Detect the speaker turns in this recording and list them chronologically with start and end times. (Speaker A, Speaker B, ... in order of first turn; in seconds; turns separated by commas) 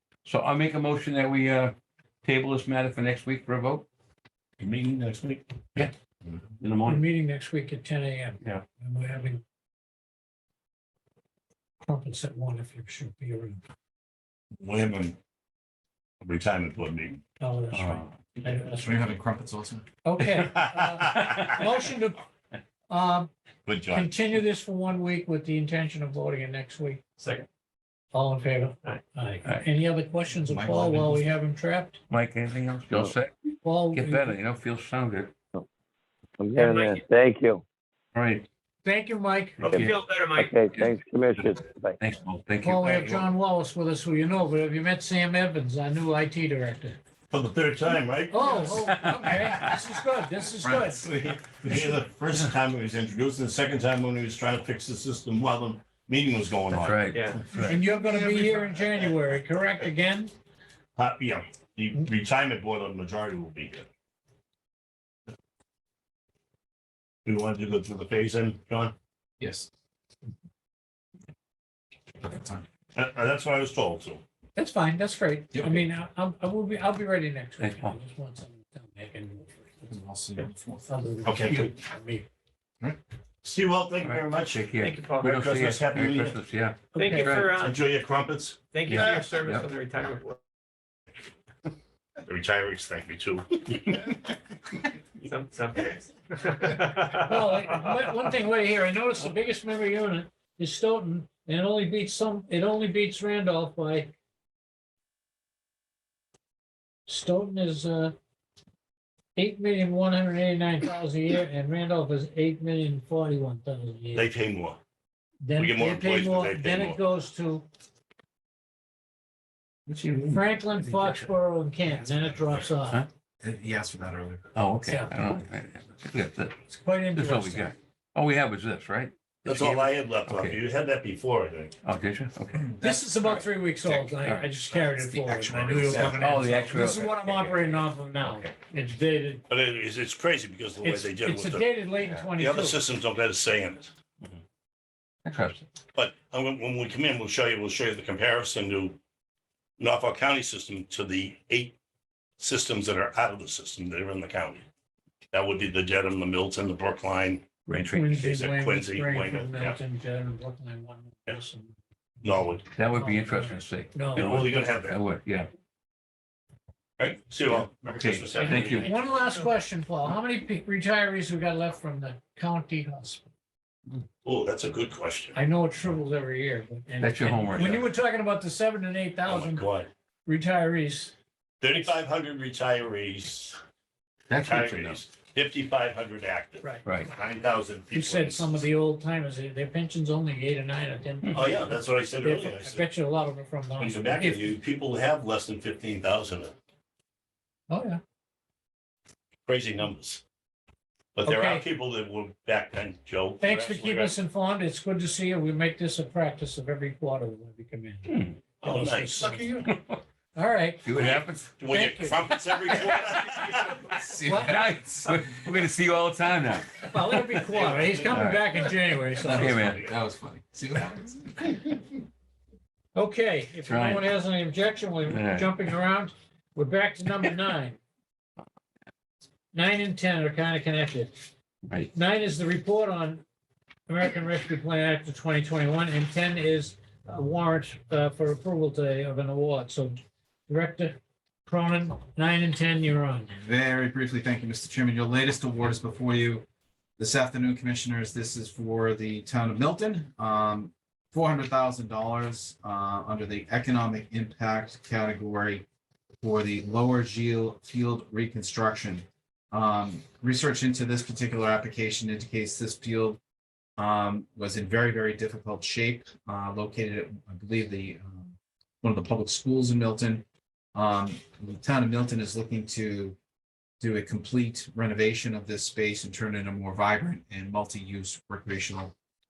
Speaker A: 0.2-3.9, Speaker B: 4.6-6.4, Speaker A: 6.6-7.0, Speaker C: 6.8-9.4, Speaker C: 11.8-13.6, Speaker B: 14.6-15.2, Speaker B: 16.2-17.2, Speaker C: 17.4-19.1, Speaker A: 17.7-18.2, Speaker D: 18.7-19.8, Speaker C: 20.1-22.2, Speaker B: 20.4-21.4, Speaker C: 22.9-23.3, Speaker B: 23.7-24.1, Speaker C: 23.9-27.0, Speaker E: 27.2-27.5, Speaker C: 28.1-32.0, Speaker D: 30.5-31.2, Speaker A: 32.1-33.3, Speaker C: 33.6-34.4, Speaker A: 33.9-35.3, Speaker F: 36.4-37.6, Speaker C: 36.6-37.0, Speaker A: 38.1-38.5, Speaker C: 38.8-39.6, Speaker A: 39.6-40.9, Speaker E: 39.6-40.4, Speaker F: 39.6-42.0, Speaker A: 42.0-43.3, Speaker C: 42.6-47.0, Speaker B: 47.3-48.8, Speaker C: 48.3-51.1, Speaker A: 48.7-49.8, Speaker D: 50.6-51.2, Speaker B: 51.2-57.7, Speaker A: 56.7-57.8, Speaker E: 57.1-57.4, Speaker C: 57.6-60.3, Speaker B: 61.0-63.9, Speaker B: 67.2-69.0, Speaker D: 69.4-69.7, Speaker D: 72.2-72.7, Speaker B: 72.9-74.2, Speaker C: 74.6-79.9, Speaker D: 75.5-75.8, Speaker A: 77.6-78.0, Speaker D: 79.8-80.9, Speaker C: 80.9-82.3, Speaker B: 81.2-81.7, Speaker B: 83.4-86.4, Speaker A: 84.0-87.7, Speaker E: 84.8-85.3, Speaker C: 86.9-87.6, Speaker E: 87.0-87.7, Speaker B: 87.5-89.3, Speaker E: 88.7-90.4, Speaker A: 88.9-89.7, Speaker B: 92.2-94.0, Speaker E: 95.2-95.7, Speaker C: 97.0-104.2, Speaker C: 107.1-108.2, Speaker C: 109.3-114.3, Speaker B: 114.1-114.8, Speaker C: 115.4-117.7, Speaker B: 115.6-117.0, Speaker A: 119.9-121.1, Speaker C: 120.3-123.1, Speaker D: 123.4-124.5, Speaker A: 124.5-126.6, Speaker C: 124.8-125.1, Speaker C: 126.7-127.7, Speaker A: 127.1-130.6, Speaker B: 129.4-131.7, Speaker A: 131.8-132.8, Speaker C: 132.8-139.5, Speaker A: 133.9-134.5, Speaker D: 134.8-136.6, Speaker B: 135.5-136.2, Speaker A: 136.1-138.5, Speaker B: 139.5-141.7, Speaker C: 140.8-142.8, Speaker A: 142.0-142.3, Speaker B: 142.4-143.9, Speaker A: 145.2-145.7, Speaker B: 145.9-149.0, Speaker B: 149.8-151.8, Speaker B: 152.4-154.7, Speaker B: 155.3-159.8, Speaker A: 157.7-158.1, Speaker C: 157.9-164.5, Speaker B: 162.2-162.6, Speaker A: 162.7-165.5, Speaker B: 164.1-165.0, Speaker B: 167.0-169.1, Speaker A: 167.8-168.9, Speaker C: 168.4-173.3, Speaker B: 174.2-175.4, Speaker C: 175.3-179.7, Speaker A: 177.0-177.9, Speaker B: 179.2-179.9, Speaker C: 180.3-181.1, Speaker B: 181.6-183.6, Speaker A: 184.3-185.0, Speaker B: 184.4-188.7, Speaker A: 186.8-187.1, Speaker C: 187.9-194.6, Speaker B: 191.3-192.8, Speaker B: 193.8-196.6, Speaker C: 197.7-198.0, Speaker B: 199.5-200.2, Speaker B: 201.2-204.2, Speaker C: 201.2-201.7, Speaker C: 203.4-209.7, Speaker A: 208.1-208.4, Speaker B: 208.6-209.4, Speaker A: 209.6-210.0, Speaker C: 210.3-210.9, Speaker A: 210.8-217.4, Speaker B: 211.0-213.8, Speaker C: 211.7-212.3, Speaker D: 213.9-214.7, Speaker C: 214.2-214.6, Speaker C: 216.9-219.6, Speaker B: 217.4-218.4, Speaker A: 218.1-219.9, Speaker B: 219.2-219.9, Speaker D: 219.2-221.8, Speaker C: 222.9-227.8, Speaker A: 223.7-224.1, Speaker A: 225.1-225.7, Speaker C: 229.5-231.2, Speaker A: 231.7-231.9, Speaker C: 231.9-233.2, Speaker C: 233.9-240.0, Speaker C: 240.5-243.3, Speaker D: 243.3-246.5, Speaker D: 247.0-255.7, Speaker D: 256.2-263.2, Speaker D: 263.8-273.2, Speaker D: 273.8-278.9